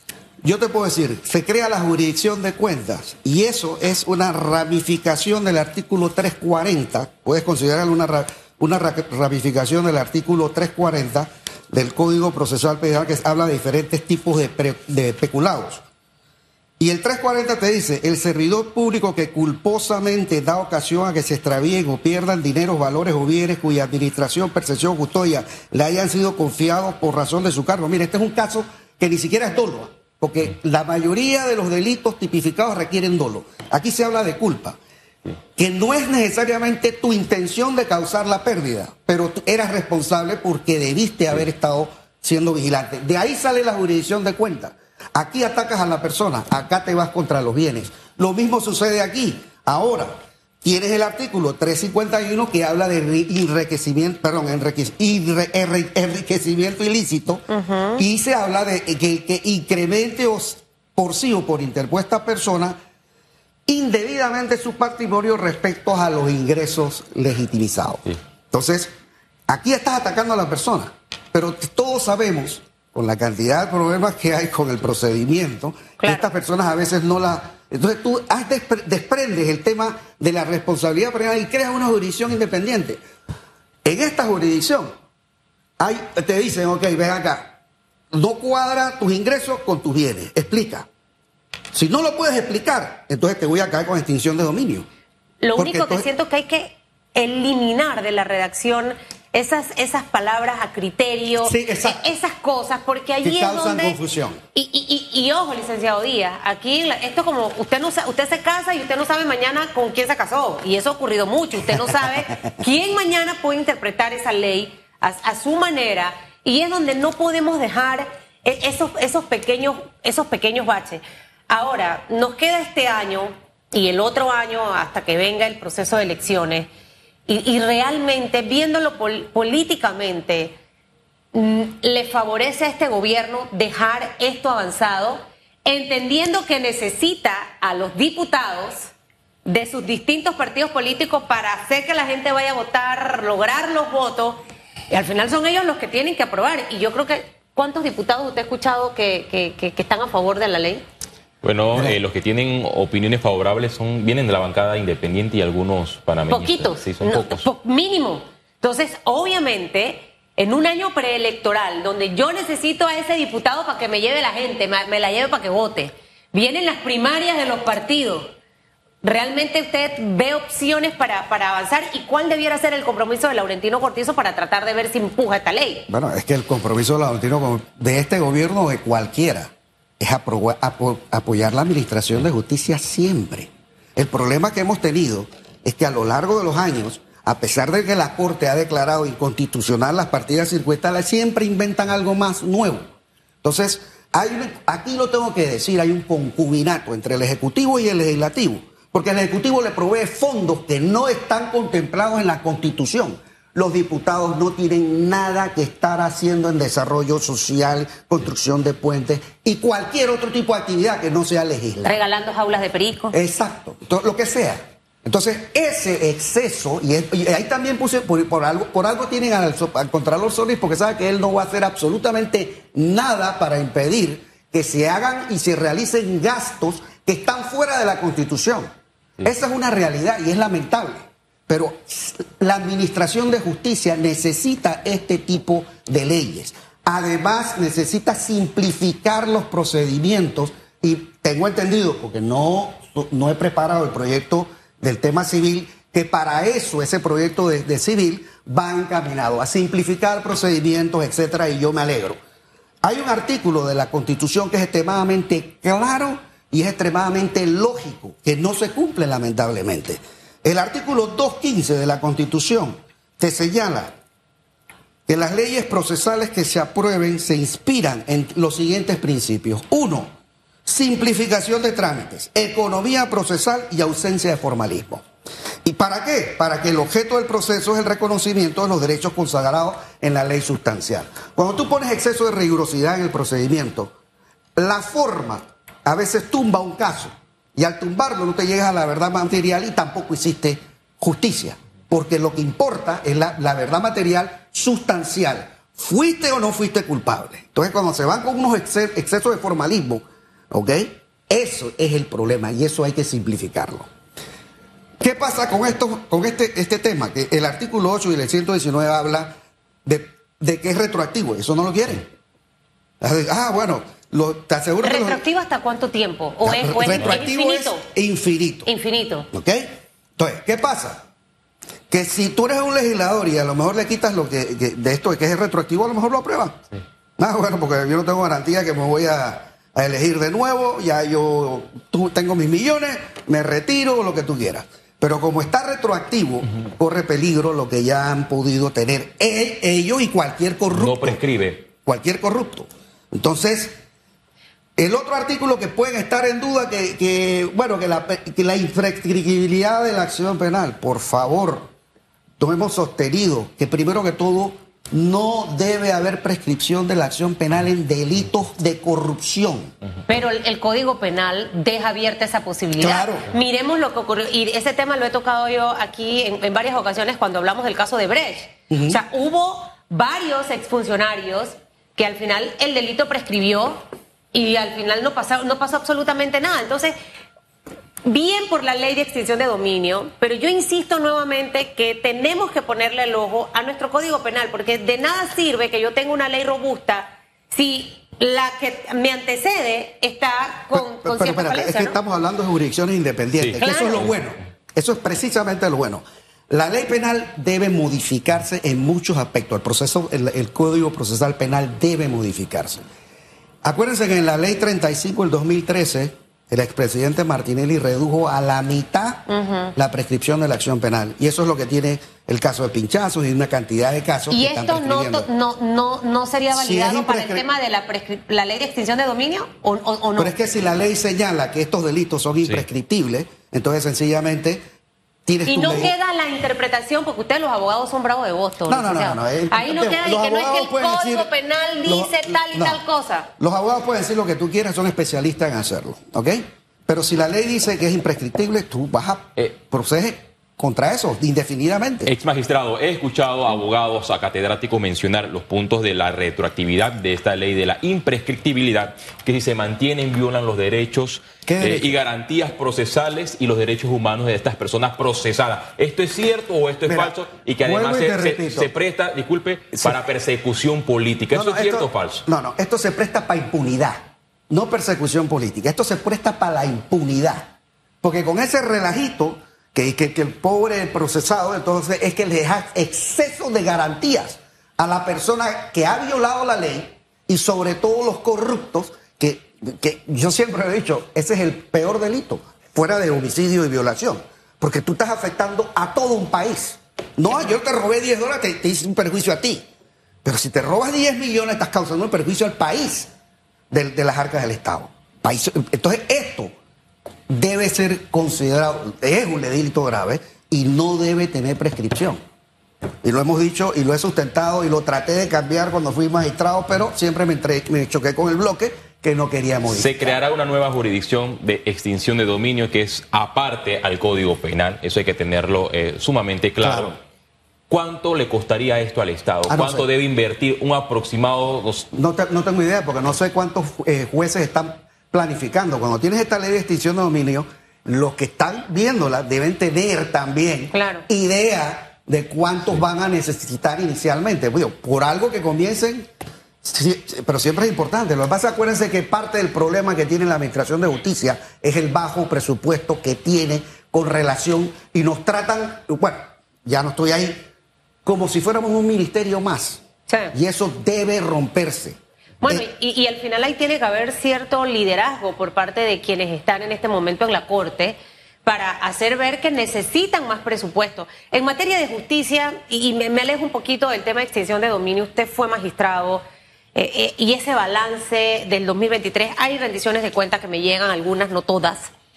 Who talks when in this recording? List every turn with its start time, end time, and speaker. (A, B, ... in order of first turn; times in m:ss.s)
0:00.4-0:15.8 A
0:16.8-0:34.8 A
0:35.6-0:57.4 A
0:57.5-0:58.0 B
0:58.0-1:02.8 A
1:03.7-1:08.9 A
1:09.5-1:23.0 A
1:16.0-1:16.3 B
1:23.8-1:24.9 A
1:25.8-1:27.5 A
1:28.1-1:30.9 A
1:31.7-1:34.9 A
1:35.4-1:44.0 B
1:35.6-1:36.1 A
1:41.4-1:42.1 A
1:43.2-1:44.4 A
1:44.6-2:06.7 B
2:07.3-2:10.6 B
2:11.3-2:18.9 B
2:19.5-2:30.8 B
2:31.4-2:37.5 C
2:36.3-2:48.3 B
2:49.0-2:55.9 B
2:55.9-3:12.9 A
3:13.4-3:32.0 A
3:31.8-3:33.2 B
3:33.1-3:48.7 A
3:49.2-4:12.2 A
4:12.8-4:23.9 A
4:25.1-4:30.1 A
4:30.7-4:35.0 A
4:35.6-4:43.9 A
4:44.6-5:03.9 A
5:05.0-5:12.1 A
5:13.0-5:15.2 A
5:14.8-5:17.8 B
5:16.4-5:18.7 A
5:18.6-5:19.3 B
5:19.3-5:21.0 A
5:21.9-5:26.6 A
5:27.2-5:43.7 A
5:40.7-5:41.6 C
5:44.8-5:51.7 A
5:52.4-5:59.7 A
6:00.1-6:16.9 B
6:02.8-6:03.3 A
6:08.7-6:09.0 A
6:18.0-6:32.0 B
6:30.7-6:42.8 A
6:33.4-6:34.1 C
6:33.6-6:34.1 B
6:43.6-6:55.3 A
6:49.3-6:49.8 B
6:54.3-7:00.4 B
6:56.5-6:57.4 A
7:00.2-7:04.6 A
7:05.3-7:05.9 A
7:05.5-7:13.3 B
7:08.7-7:11.3 A
7:11.8-7:12.8 A
7:13.4-7:22.1 A
7:22.1-7:42.2 C
7:31.5-7:32.0 A
7:36.9-7:38.7 A
7:41.3-8:09.6 A
8:10.2-8:13.1 A
8:13.7-8:16.5 A
8:17.3-8:22.2 A
8:23.0-8:30.2 A
8:29.7-8:37.0 C
8:36.6-8:36.9 A
8:37.7-8:41.9 C
8:39.5-8:39.9 A
8:41.9-8:56.1 A
8:50.7-8:51.1 B
8:56.6-9:07.4 A
9:08.0-9:09.8 A
9:10.1-9:10.3 B
9:10.3-9:12.7 A
9:12.4-9:26.2 B
9:26.8-9:31.9 B